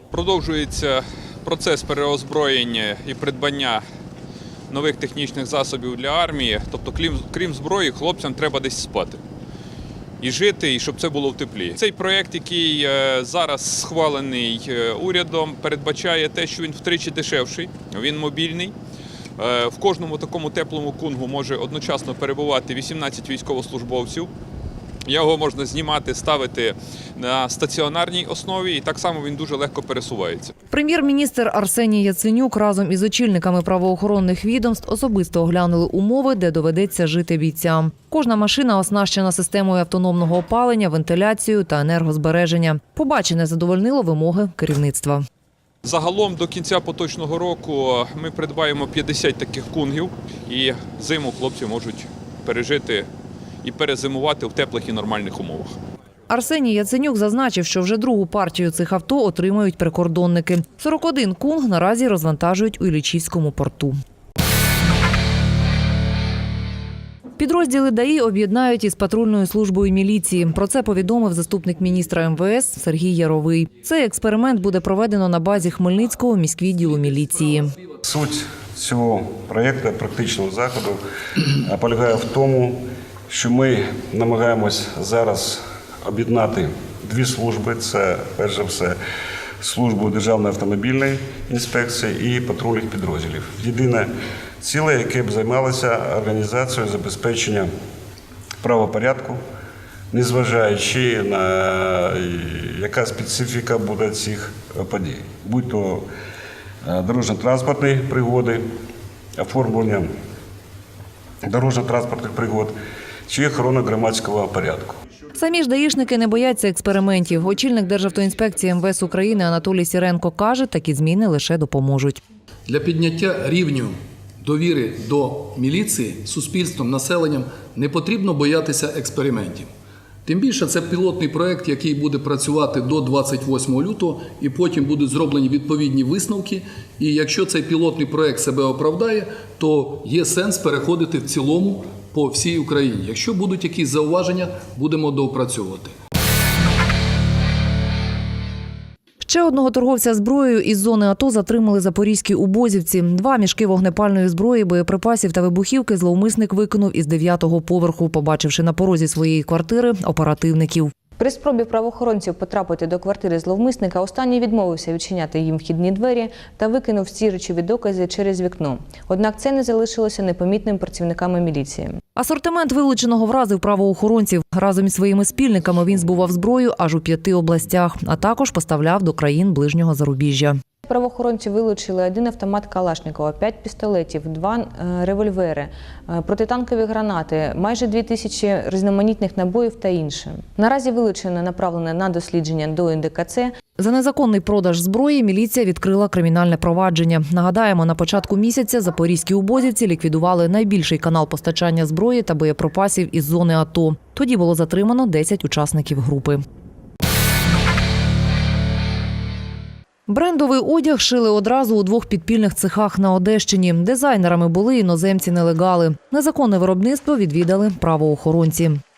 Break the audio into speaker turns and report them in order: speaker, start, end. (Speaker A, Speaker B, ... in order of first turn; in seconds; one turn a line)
Speaker A: 0.1-3.8
Speaker A: 4.7-9.2
Speaker A: 10.2-18.7
Speaker A: 19.4-24.3
Speaker A: 25.1-30.5
Speaker B: 30.7-45.2
Speaker A: 45.8-53.1
Speaker A: 53.6-55.7
Speaker B: 56.3-63.9
Speaker B: 67.4-77.7
Speaker C: 78.0-89.0
Speaker C: 89.6-94.1
Speaker C: 94.6-97.7
Speaker C: 98.6-99.4
Speaker C: 100.1-106.0
Speaker C: 106.8-108.7
Speaker C: 109.4-110.1
Speaker C: 111.4-112.7
Speaker C: 113.3-115.0
Speaker B: 115.3-122.2
Speaker D: 122.7-129.7
Speaker D: 130.2-145.9
Speaker B: 149.2-160.9
Speaker E: 161.2-171.9
Speaker B: 172.2-180.6
Speaker E: 180.8-193.5
Speaker B: 193.8-206.4
Speaker B: 210.1-218.8